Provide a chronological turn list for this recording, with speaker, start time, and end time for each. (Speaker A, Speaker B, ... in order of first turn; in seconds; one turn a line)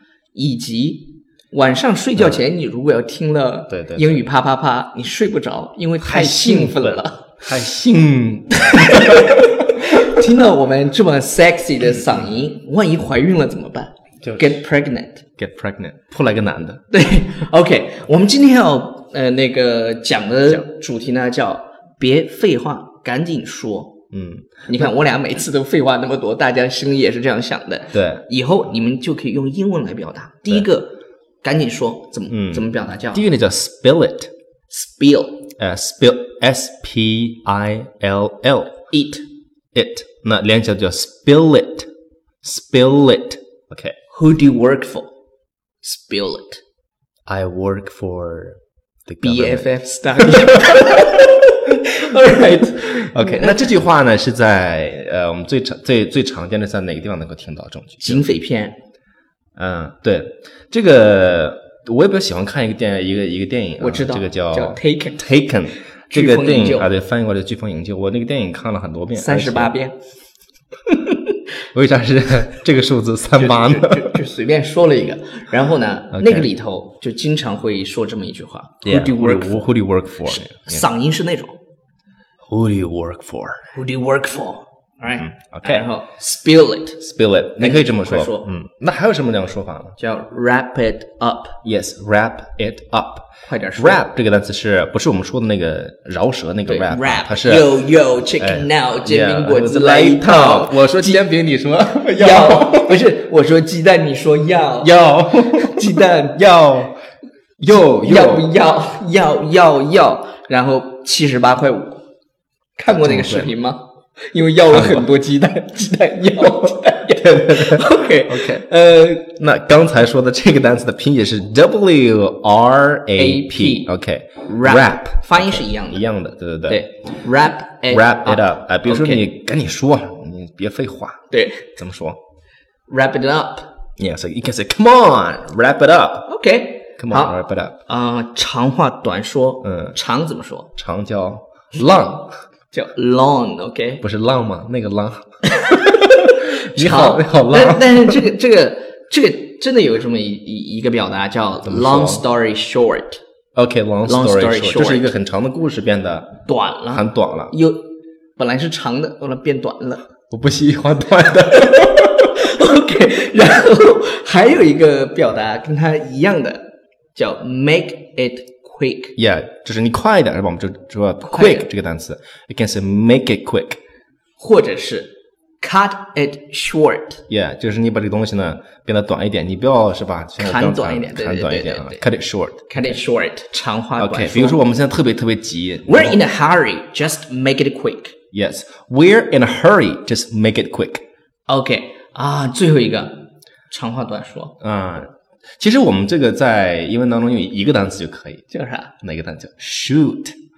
Speaker A: 0.3-7.5
Speaker B: 3.7-4.2
Speaker B: 6.0-9.4
Speaker A: 8.6-15.2
Speaker B: 14.2-14.6
Speaker B: 15.4-16.8
Speaker A: 16.9-24.0
Speaker B: 24.1-24.9
Speaker A: 24.7-33.2
Speaker B: 27.9-28.2
Speaker B: 32.3-34.3
Speaker A: 34.7-35.5
Speaker B: 35.6-38.8
Speaker A: 38.9-39.2
Speaker B: 39.7-41.9
Speaker B: 42.4-43.9
Speaker A: 44.1-45.1
Speaker A: 45.8-46.6
Speaker B: 47.3-51.1
Speaker A: 49.2-53.7
Speaker B: 52.8-58.3
Speaker A: 58.0-58.8
Speaker B: 59.5-69.7
Speaker A: 63.8-65.2
Speaker A: 66.1-66.9
Speaker A: 69.1-70.0
Speaker A: 70.9-71.3
Speaker B: 71.7-74.2
Speaker A: 73.4-79.7
Speaker B: 76.1-76.5
Speaker B: 78.8-80.8
Speaker A: 80.2-81.6
Speaker B: 82.5-83.7
Speaker A: 83.7-87.0
Speaker B: 85.2-85.8
Speaker B: 87.0-90.0
Speaker A: 87.6-88.5
Speaker A: 90.0-91.6
Speaker B: 91.6-97.8
Speaker A: 93.5-94.0
Speaker A: 96.7-101.2
Speaker B: 98.4-103.0
Speaker A: 102.1-106.4
Speaker B: 104.8-107.0
Speaker B: 107.6-108.5
Speaker A: 108.0-112.0
Speaker A: 112.8-119.3
Speaker B: 112.9-113.5
Speaker B: 114.7-115.1
Speaker B: 117.2-118.6
Speaker B: 119.2-126.8
Speaker A: 123.2-123.9
Speaker A: 124.5-126.0
Speaker A: 126.7-129.2
Speaker B: 127.9-132.2
Speaker A: 131.3-131.7
Speaker A: 132.9-133.7
Speaker B: 134.0-136.3
Speaker A: 136.2-140.7
Speaker B: 137.0-137.8
Speaker B: 139.6-139.9
Speaker B: 140.8-142.3
Speaker A: 142.7-144.0
Speaker B: 144.0-145.2
Speaker A: 145.5-153.2
Speaker B: 145.8-148.3
Speaker B: 151.6-152.2
Speaker B: 153.6-156.3
Speaker A: 154.1-155.1
Speaker A: 156.4-160.0
Speaker B: 156.9-157.5
Speaker B: 160.3-162.3
Speaker A: 161.6-169.2
Speaker B: 169.2-173.8
Speaker A: 171.2-171.7
Speaker A: 174.4-177.2
Speaker B: 177.3-182.9
Speaker A: 180.4-182.0
Speaker A: 182.7-184.6
Speaker B: 184.0-186.2
Speaker A: 185.9-188.1
Speaker B: 188.3-191.0
Speaker A: 191.5-194.6
Speaker B: 194.6-198.4
Speaker A: 198.5-198.9
Speaker B: 199.0-200.3